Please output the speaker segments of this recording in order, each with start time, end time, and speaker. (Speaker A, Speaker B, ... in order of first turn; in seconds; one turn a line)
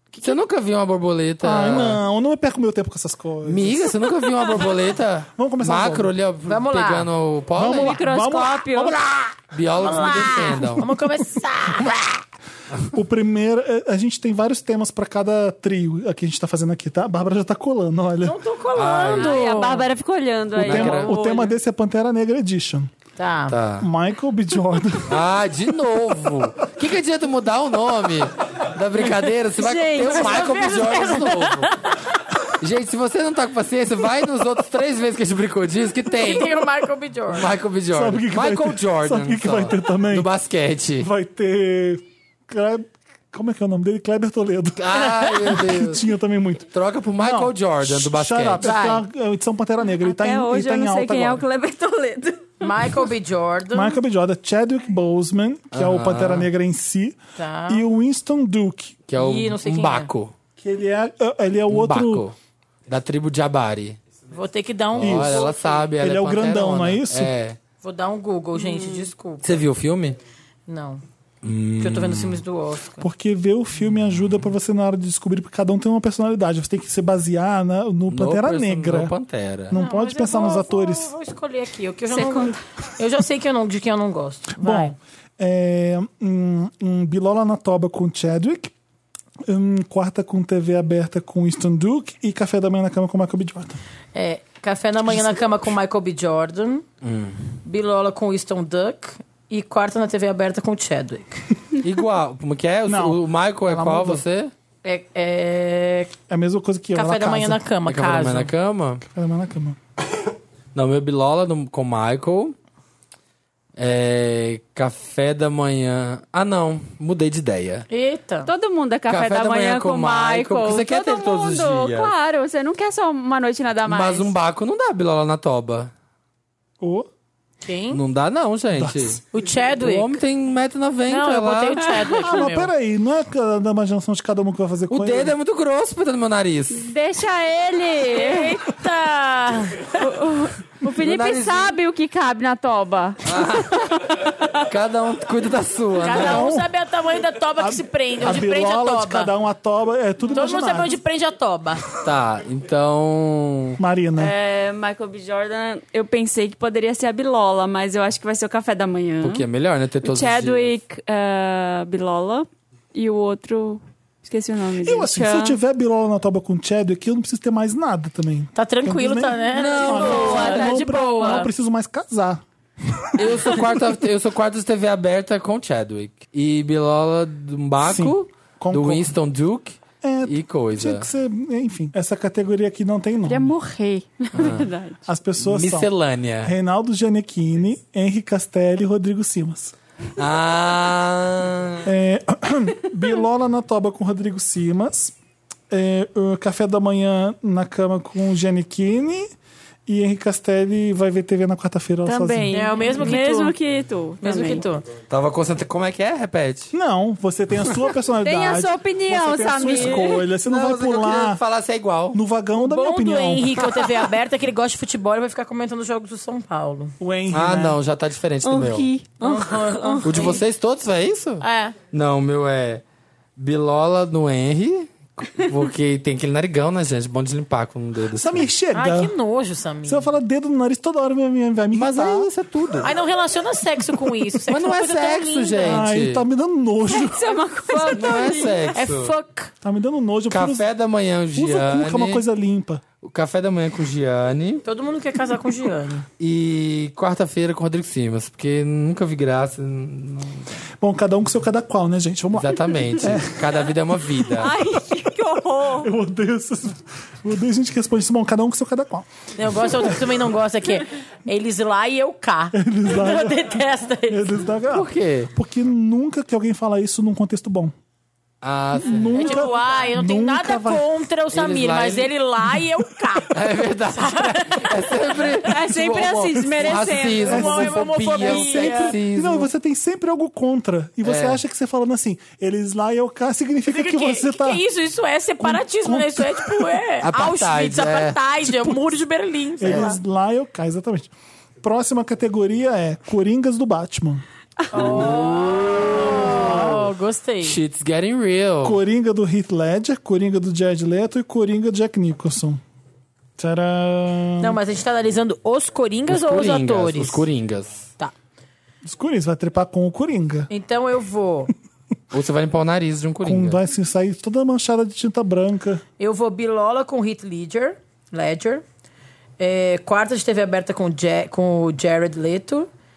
Speaker A: 0.2-2.0
Speaker B: 1.4-3.9
Speaker A: 3.5-8.0
Speaker B: 5.4-6.1
Speaker C: 6.5-7.1
Speaker B: 7.5-9.2
Speaker D: 7.7-9.0
Speaker A: 9.5-10.9
Speaker C: 9.8-12.2
Speaker B: 12.9-18.4
Speaker C: 18.2-19.9
Speaker A: 18.7-19.4
Speaker D: 19.0-21.5
Speaker A: 20.5-21.1
Speaker B: 20.6-22.9
Speaker C: 23.2-23.6
Speaker A: 23.5-23.9
Speaker B: 23.8-25.2
Speaker A: 25.1-31.9
Speaker D: 29.6-30.7
Speaker C: 29.9-32.0
Speaker A: 32.6-36.6
Speaker C: 36.2-37.5
Speaker A: 37.3-41.1
Speaker B: 37.9-40.3
Speaker B: 41.0-51.4
Speaker A: 44.8-46.0
Speaker A: 46.7-48.7
Speaker C: 48.6-49.0
Speaker D: 50.0-52.6
Speaker C: 52.6-54.0
Speaker B: 53.7-59.0
Speaker A: 55.7-56.5
Speaker C: 57.4-57.9
Speaker A: 59.1-60.3
Speaker C: 59.2-60.1
Speaker B: 60.6-62.2
Speaker A: 61.7-62.4
Speaker A: 62.9-64.0
Speaker C: 64.3-65.5
Speaker A: 65.0-67.6
Speaker B: 65.0-67.3
Speaker C: 67.8-69.6
Speaker D: 68.6-69.1
Speaker A: 69.4-70.2
Speaker C: 70.7-71.0
Speaker A: 71.4-72.4
Speaker C: 71.8-73.1
Speaker B: 73.0-79.1
Speaker A: 78.1-79.8
Speaker B: 79.7-81.1
Speaker C: 79.7-85.0
Speaker D: 82.1-82.6
Speaker B: 84.6-88.7
Speaker B: 89.5-93.8
Speaker C: 94.1-96.8
Speaker A: 97.0-97.4
Speaker C: 97.7-101.5
Speaker A: 101.8-104.5
Speaker B: 102.9-104.2
Speaker C: 104.8-106.1
Speaker B: 106.3-107.6
Speaker C: 107.0-108.5
Speaker A: 107.9-109.0
Speaker B: 109.0-109.8
Speaker A: 110.7-112.5
Speaker A: 113.8-117.9
Speaker C: 117.9-118.5
Speaker D: 118.5-124.3
Speaker A: 119.1-122.1
Speaker A: 123.8-125.9
Speaker B: 126.8-127.1
Speaker C: 127.6-128.0
Speaker A: 127.9-129.2
Speaker B: 128.8-129.2
Speaker C: 129.3-130.2
Speaker A: 129.8-131.9
Speaker C: 131.1-132.7
Speaker D: 131.8-132.2
Speaker B: 132.2-135.3
Speaker A: 134.9-136.9
Speaker D: 136.7-138.6
Speaker C: 138.1-140.0
Speaker D: 140.0-144.6
Speaker A: 140.9-141.8
Speaker A: 143.2-143.8
Speaker A: 144.6-146.5
Speaker C: 146.0-149.3
Speaker B: 146.1-146.7
Speaker B: 147.6-151.0
Speaker C: 150.3-151.8
Speaker A: 152.0-153.8
Speaker B: 153.8-154.3
Speaker D: 154.2-159.4
Speaker A: 159.2-160.7
Speaker D: 160.0-165.6
Speaker B: 164.8-173.7
Speaker C: 168.6-171.5
Speaker A: 169.5-170.5
Speaker D: 169.7-171.5
Speaker A: 173.2-181.1
Speaker B: 177.8-179.1
Speaker B: 180.0-183.5
Speaker D: 183.2-185.0
Speaker A: 184.3-184.7
Speaker B: 185.1-185.9
Speaker A: 185.4-186.5
Speaker B: 186.4-189.7
Speaker A: 190.2-191.9
Speaker B: 191.8-195.2
Speaker B: 195.7-199.3
Speaker B: 199.9-202.8
Speaker D: 202.1-204.7
Speaker C: 202.5-203.6
Speaker C: 204.2-204.8
Speaker A: 205.1-206.7
Speaker B: 206.7-211.4
Speaker D: 208.2-210.2
Speaker A: 210.0-212.2
Speaker B: 212.1-213.6
Speaker C: 212.6-216.9
Speaker B: 217.0-217.8
Speaker A: 217.3-218.9
Speaker D: 218.4-220.4
Speaker C: 219.2-220.4
Speaker A: 220.0-222.8
Speaker C: 221.4-221.8
Speaker A: 223.4-228.5
Speaker B: 228.2-229.1
Speaker C: 228.7-230.1
Speaker B: 229.8-232.3
Speaker A: 231.7-232.9
Speaker C: 232.8-235.9
Speaker A: 234.5-236.2
Speaker B: 235.6-237.4
Speaker D: 236.9-238.8
Speaker A: 237.8-239.1
Speaker C: 238.7-239.5
Speaker B: 239.6-240.7
Speaker A: 240.3-242.2
Speaker B: 241.3-242.8
Speaker A: 243.0-244.6
Speaker C: 244.6-246.1
Speaker A: 246.2-250.5
Speaker B: 250.8-253.5
Speaker A: 252.3-254.6
Speaker D: 254.4-255.9
Speaker B: 255.8-259.1
Speaker C: 259.4-264.4
Speaker B: 259.6-260.1
Speaker B: 262.5-267.7
Speaker A: 264.7-265.3
Speaker A: 268.4-269.3
Speaker B: 268.8-270.8
Speaker C: 269.1-275.4
Speaker A: 271.3-272.1
Speaker A: 273.3-279.5
Speaker D: 275.4-277.5
Speaker B: 276.7-284.6
Speaker C: 277.2-279.0
Speaker D: 278.2-278.7
Speaker A: 281.0-281.4
Speaker C: 283.7-290.0
Speaker B: 285.4-286.8
Speaker A: 287.0-288.2
Speaker B: 289.6-291.1
Speaker B: 291.6-294.2
Speaker C: 294.7-297.6
Speaker A: 294.8-296.8
Speaker B: 296.2-296.9
Speaker A: 297.4-298.8
Speaker B: 298.6-302.6
Speaker B: 303.4-304.6
Speaker C: 304.4-307.2
Speaker A: 306.1-307.9
Speaker B: 308.9-310.5
Speaker C: 310.5-311.5
Speaker A: 312.1-313.6
Speaker B: 313.2-315.8
Speaker C: 316.0-318.6
Speaker C: 319.4-322.7